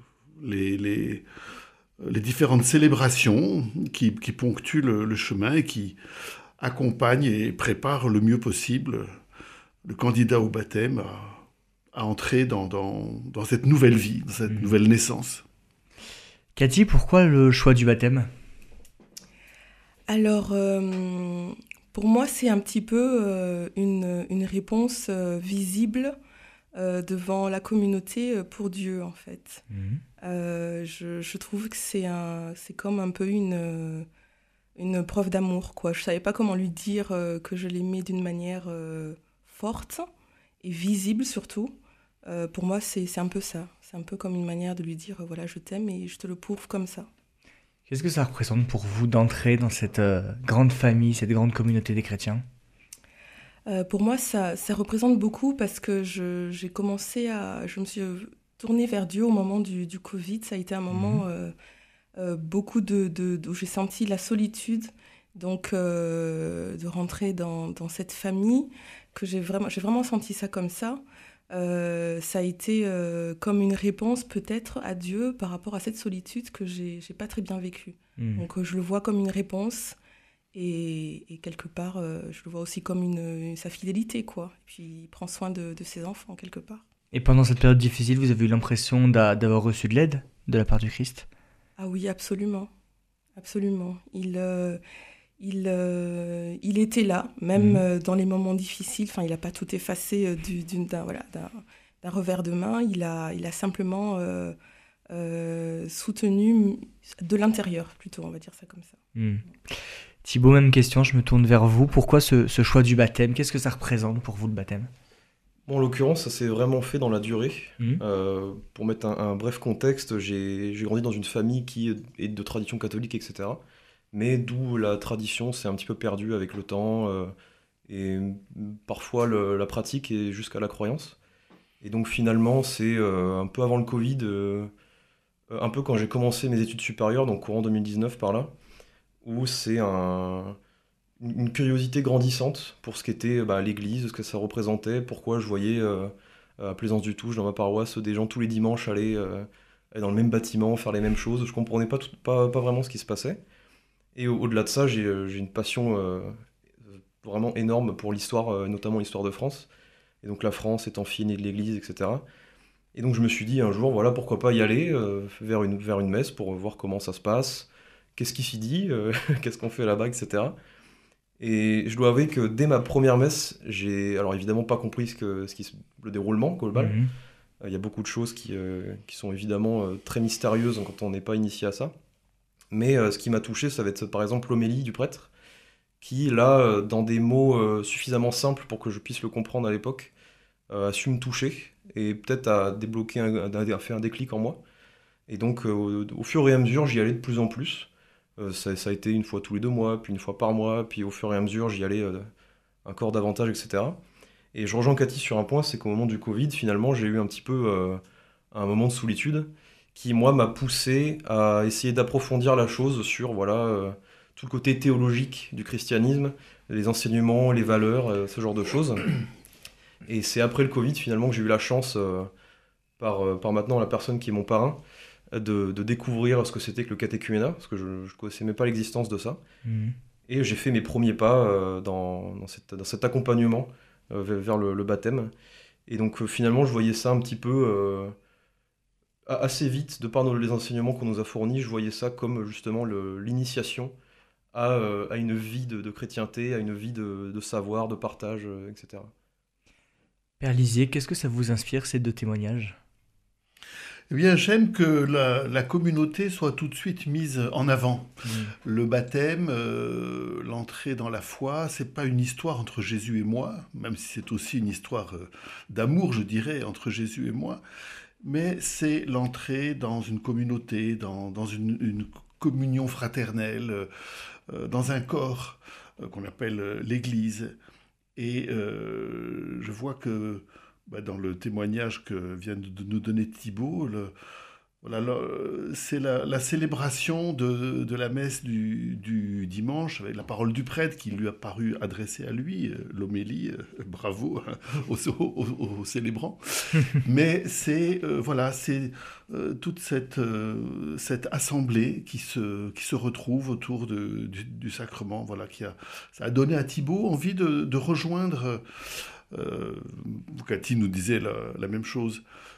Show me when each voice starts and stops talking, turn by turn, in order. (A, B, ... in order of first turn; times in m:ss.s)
0:00.4-0:01.3 A
0:02.0-0:06.0 A
0:06.6-0:09.1 A
0:09.8-0:15.4 A
0:16.6-0:18.3 B
0:20.1-0:26.1 C
0:26.8-0:29.6 C
0:29.7-0:30.0 B
0:30.2-0:34.1 C
0:34.8-0:40.1 C
0:40.6-0:47.1 C
0:47.9-0:52.4 B
0:53.7-1:01.6 C
1:00.9-1:01.2 B
1:02.2-1:20.0 C
1:18.2-1:18.4 B
1:20.5-1:26.8 C
1:27.1-1:31.3 B
1:31.8-1:32.7 C
1:33.4-1:34.8 C
1:35.4-1:44.6 C
1:37.6-1:37.8 B
1:45.1-1:49.0 C
1:49.2-1:54.9 B
1:55.7-2:03.6 D
2:04.1-2:07.3 D
2:07.9-2:11.2 D
2:11.8-2:14.7 D
2:15.5-2:18.5 D
2:19.2-2:20.6 D
2:21.2-2:33.4 D
2:34.2-2:36.4 D
2:37.2-2:39.7 D
2:40.2-2:42.2 D
2:43.0-2:50.6 D
2:51.4-2:57.0 D
2:56.8-2:57.1 B
2:57.6-3:01.9 D
3:02.7-3:05.3 D
3:06.0-3:10.1 D
3:10.7-3:14.6 D
3:15.3-3:22.3 D
3:22.8-3:24.0 D
3:24.5-3:39.1 D
3:40.1-3:42.3 D
3:43.0-3:44.8 D
3:45.3-3:49.4 D
3:49.6-3:50.0 B
3:50.3-3:55.3 D
3:55.9-3:58.2 D
3:59.3-4:03.9 D
4:04.5-4:09.1 D
4:10.4-4:12.8 B
4:14.1-4:27.6 A
4:18.2-4:18.5 B
4:28.2-4:33.9 A
4:34.5-4:37.6 A
4:38.2-4:44.1 A
4:44.8-5:12.2 A